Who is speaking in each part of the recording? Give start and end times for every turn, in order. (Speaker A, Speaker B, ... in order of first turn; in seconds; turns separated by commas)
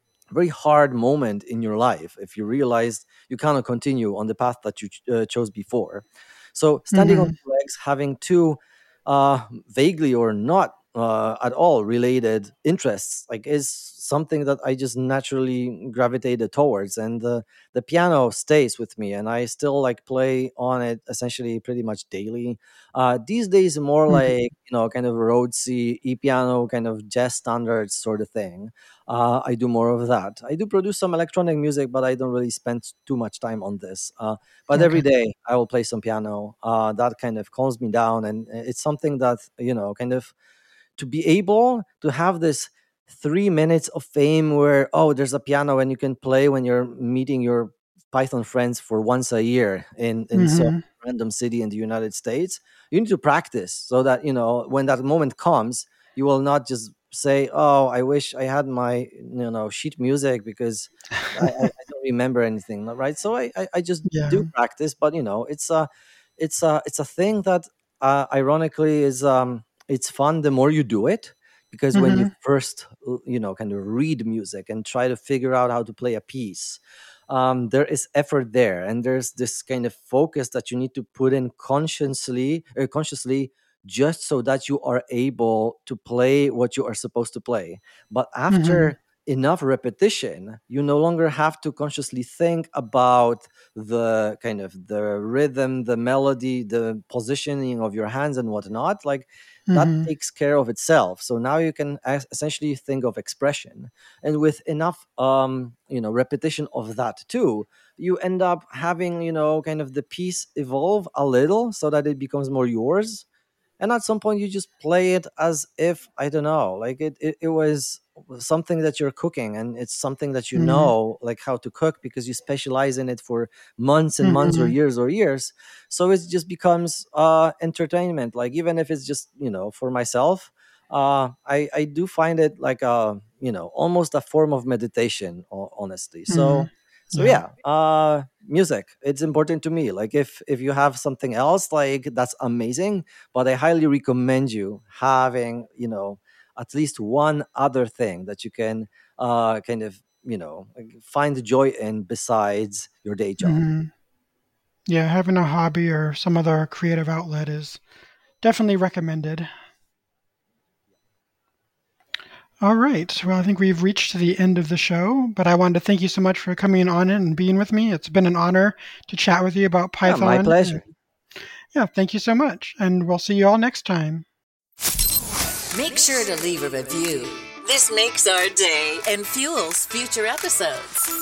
Speaker A: 0.3-40.3, Speaker B: 6.9-7.3, Speaker B: 34.7-35.0, Speaker A: 41.0-113.3, Speaker B: 50.4-50.8, Speaker B: 64.1-64.5, Speaker B: 71.9-72.3, Speaker B: 88.5-88.9, Speaker B: 99.7-100.1, Speaker A: 113.8-153.6, Speaker B: 120.5-120.9, Speaker B: 124.2-124.7, Speaker B: 136.3-137.4, Speaker B: 153.4-153.9, Speaker B: 154.9-157.8, Speaker B: 158.4-159.5, Speaker B: 162.6-170.8, Speaker A: 170.0-170.9, Speaker B: 171.7-174.2, Speaker C: 175.7-181.1